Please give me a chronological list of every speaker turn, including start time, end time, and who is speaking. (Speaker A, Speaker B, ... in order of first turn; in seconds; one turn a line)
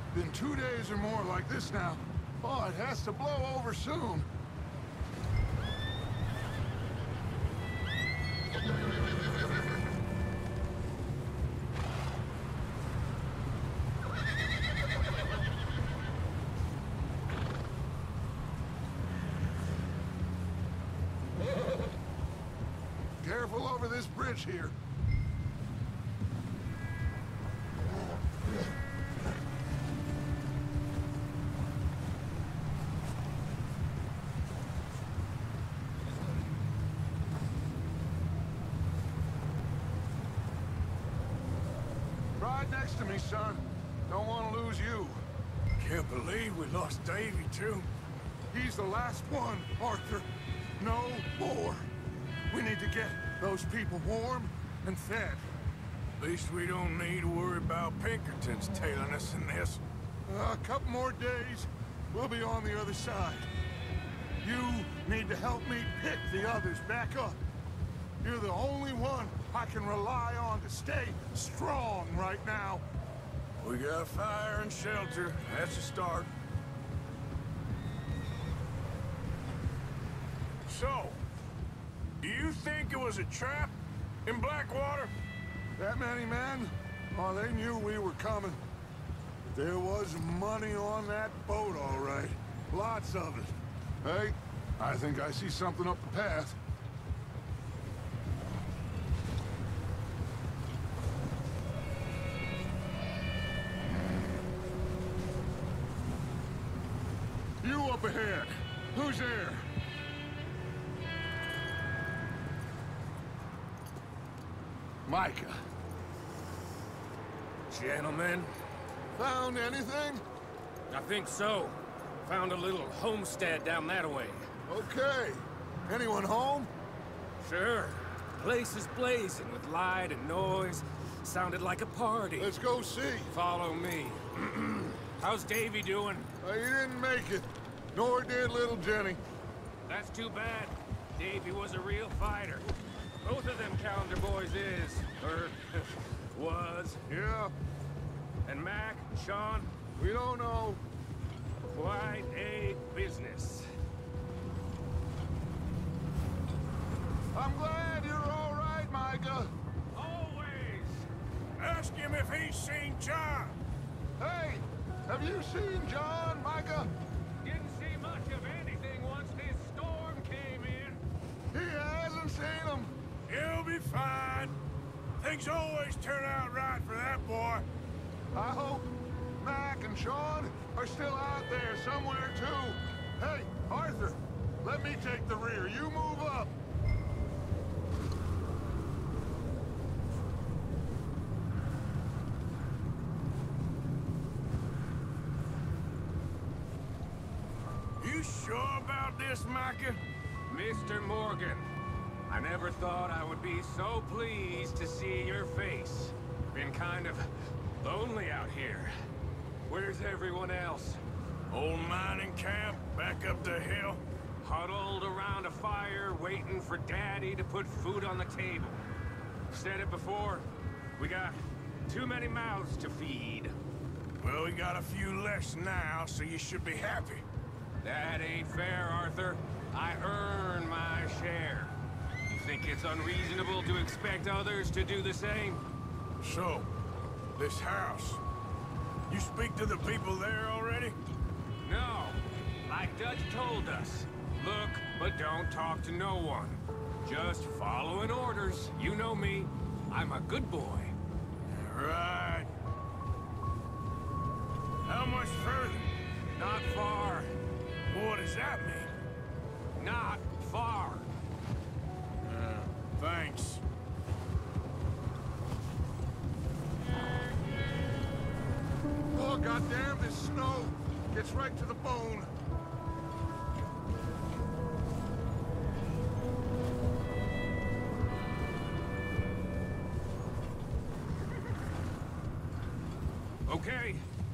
Speaker A: 0.1-4.3
Speaker A: 23.2-24.8
Speaker A: 42.4-45.2
Speaker B: 45.8-47.9
Speaker A: 48.5-51.9
Speaker A: 52.5-55.5
Speaker B: 56.2-59.8
Speaker A: 60.3-63.5
Speaker A: 64.4-67.4
Speaker A: 68.2-72.8
Speaker B: 73.6-76.3
Speaker B: 80.7-81.2
Speaker B: 82.2-85.1
Speaker A: 85.8-88.6
Speaker A: 89.4-96.6
Speaker A: 107.6-109.7
Speaker A: 115.0-115.6
Speaker C: 117.7-118.5
Speaker A: 119.2-120.2
Speaker C: 120.9-124.5
Speaker A: 124.7-126.7
Speaker C: 127.4-132.5
Speaker A: 132.4-133.3
Speaker C: 133.3-136.3
Speaker A: 136.4-139.2
Speaker C: 139.9-142.7
Speaker C: 143.2-147.0
Speaker A: 147.1-147.5
Speaker C: 148.4-149.7
Speaker A: 150.0-150.8
Speaker C: 151.7-153.7
Speaker A: 157.3-159.5
Speaker C: 159.9-161.1
Speaker B: 161.6-163.6
Speaker A: 164.2-166.9
Speaker C: 167.4-171.0
Speaker A: 171.5-172.9
Speaker B: 173.3-174.6
Speaker B: 175.2-177.7
Speaker A: 178.3-178.9
Speaker A: 179.4-186.5
Speaker B: 198.0-200.0
Speaker C: 200.5-201.7
Speaker C: 202.3-207.3
Speaker C: 207.8-208.9
Speaker C: 209.7-211.0
Speaker B: 211.5-214.0
Speaker C: 214.4-218.8
Speaker C: 219.5-223.5
Speaker B: 224.2-227.2
Speaker C: 227.8-231.7
Speaker C: 232.3-235.6
Speaker B: 236.2-236.7
Speaker B: 237.3-238.2
Speaker B: 239.1-241.0
Speaker C: 241.6-250.9
Speaker B: 251.5-252.5
Speaker B: 254.8-255.9
Speaker C: 256.4-257.3
Speaker B: 257.9-258.9
Speaker C: 259.8-261.1
Speaker B: 262.2-263.6
Speaker A: 269.1-272.3
Speaker C: 283.4-284.0